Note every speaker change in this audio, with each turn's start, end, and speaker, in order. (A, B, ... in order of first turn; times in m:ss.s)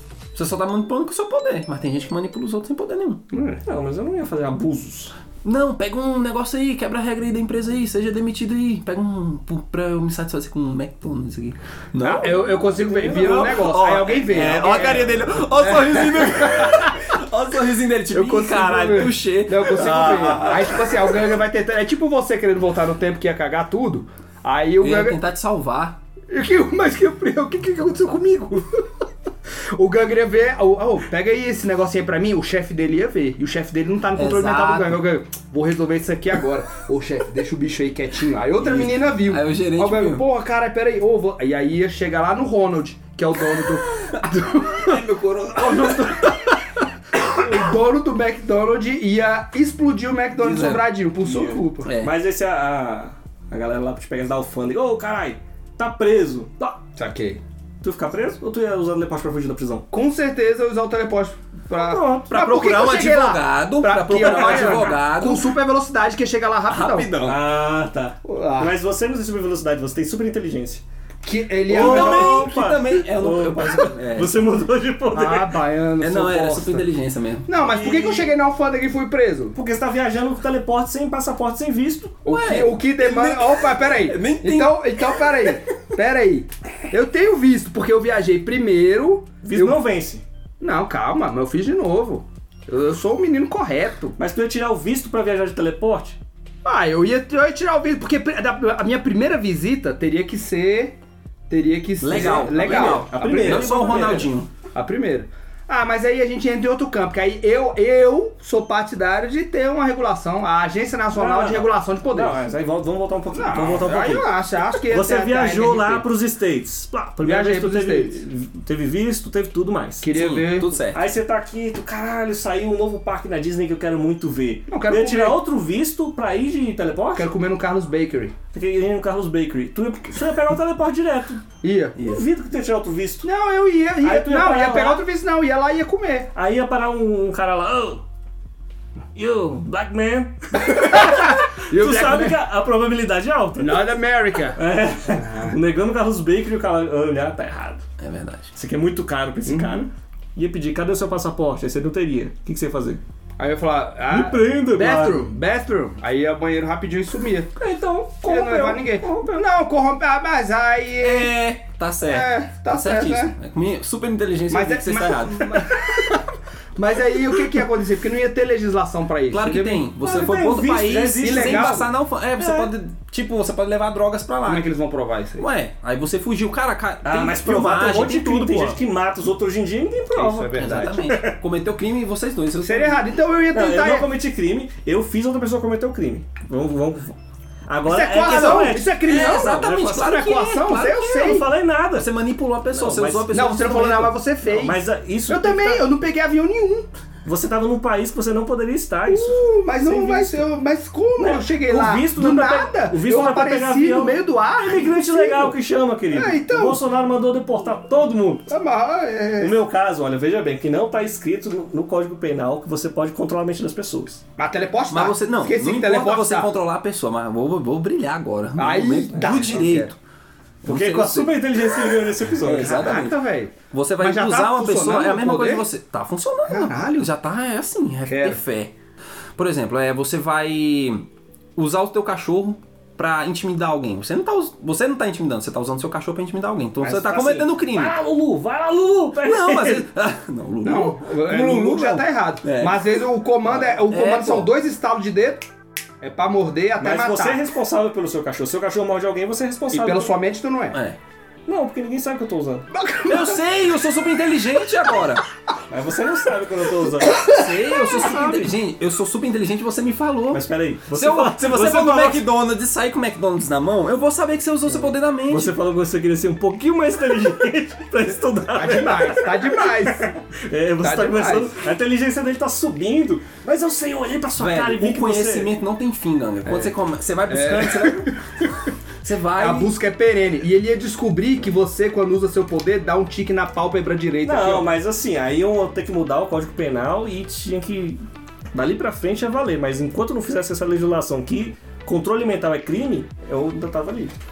0:00.3-0:03.2 A
0:03.3-0:03.6 B
0:03.6-0:05.1 C
0:05.4-0:12.5 A
0:12.0-0:17.2 B
0:12.6-0:13.6 C
0:13.1-0:21.0 A
0:18.1-0:25.2 B
0:19.8-0:20.7 C
0:24.8-0:26.0 A
0:26.3-0:28.8 B
0:29.7-0:46.5 B
0:34.2-0:35.0 A
0:38.6-0:40.2 A
0:44.8-0:46.4 A
0:47.1-0:51.9 B
0:50.4-0:50.8 A
0:50.4-0:56.8 C
0:51.8-0:52.1 A
0:56.9-0:57.4 B
0:57.8-0:59.8 C
0:59.9-1:07.2 B
1:01.7-1:02.3 C
1:02.3-1:05.5 A
1:04.2-1:05.0 C
1:06.7-1:07.4 A
1:07.2-1:10.8 C
1:08.2-1:08.8 B
1:11.2-1:12.5 B
1:11.7-1:15.6 C
1:11.7-1:14.4 A
1:15.1-1:16.8 B
1:16.0-1:17.5 A
1:17.4-1:19.6 B
1:17.6-1:18.3 C
1:19.5-1:22.2 C
1:22.2-1:29.8 B
1:22.3-1:25.5 A
1:29.4-1:30.2 C
1:30.6-1:34.2 B
1:34.2-1:36.2 C
1:36.6-1:41.0 B
1:41.5-1:52.4 B
1:42.0-1:44.5 A
1:42.1-1:44.3 C
1:51.1-1:54.3 C
1:53.3-1:56.1 B
1:54.9-2:00.1 C
1:57.2-1:58.2 B
2:00.0-2:00.8 B
2:00.1-2:01.0 A
2:00.9-2:07.3 C
2:04.7-2:05.4 B
2:07.1-2:08.3 B
2:08.5-2:11.4 C
2:11.6-2:12.0 B
2:12.0-2:13.3 C
2:13.2-2:16.3 B
2:14.0-2:15.0 C
2:16.3-2:18.0 C
2:19.1-2:23.9 C
2:20.6-2:22.4 B
2:23.6-2:25.6 B
2:24.5-2:27.8 C
2:28.0-2:28.5 A
2:28.5-2:33.0 C
2:29.4-2:29.8 B
2:33.4-2:37.5 B
2:34.1-2:35.3 C
2:37.6-2:39.4 C
2:38.2-2:41.3 B
2:41.0-2:45.7 A
2:42.0-2:43.3 B
2:44.5-2:49.9 B
2:49.3-2:54.6 A
2:50.0-2:52.7 C
2:51.2-2:51.9 B
2:54.4-2:55.4 B
2:55.4-2:58.8 A
2:57.0-3:01.4 C
3:00.1-3:01.0 B
3:00.6-3:03.0 A
3:02.6-3:04.1 B
3:03.5-3:07.2 C
3:07.7-3:10.1 C
3:07.8-3:11.4 B
3:08.3-3:11.4 A
3:10.9-3:12.1 C
3:11.9-3:14.2 A
3:12.7-3:13.3 C
3:13.3-3:16.9 B
3:14.4-3:15.8 C
3:17.2-3:20.4 C
3:19.1-3:25.6 B
3:21.2-3:28.5 C
3:26.1-3:26.8 B
3:28.5-3:29.6 B
3:29.4-3:34.2 C
3:34.4-3:36.5 B
3:34.9-3:40.0 A
3:38.6-3:39.9 B
3:40.6-3:41.6 A
3:40.6-3:43.0 C
3:42.4-3:43.2 A
3:42.5-3:45.6 B
3:43.7-3:48.7 A
3:46.5-3:47.1 B
3:48.0-3:48.4 B
3:49.4-3:58.0 A
3:56.8-3:59.9 C
3:59.2-4:03.0 A
4:00.6-4:05.5 B
4:03.7-4:04.5 A
4:06.0-4:07.4 B
4:06.8-4:10.1 C
4:09.7-4:10.8 B
4:10.7-4:11.0 A
4:11.5-4:12.7 C
4:12.7-4:13.4 B
4:13.1-4:15.2 A
4:15.7-4:18.5 C
4:17.0-4:17.4 B
4:17.2-4:25.6 A
4:20.3-4:22.2 C
4:24.7-4:35.5 C
4:28.5-4:30.1 B
4:30.8-4:31.6 B
4:34.4-4:38.1 A
4:36.4-4:36.8 B
4:37.3-4:38.7 B
4:39.0-4:39.7 A
4:39.4-4:44.7 B
4:44.2-4:48.0 C
4:48.5-4:54.1 C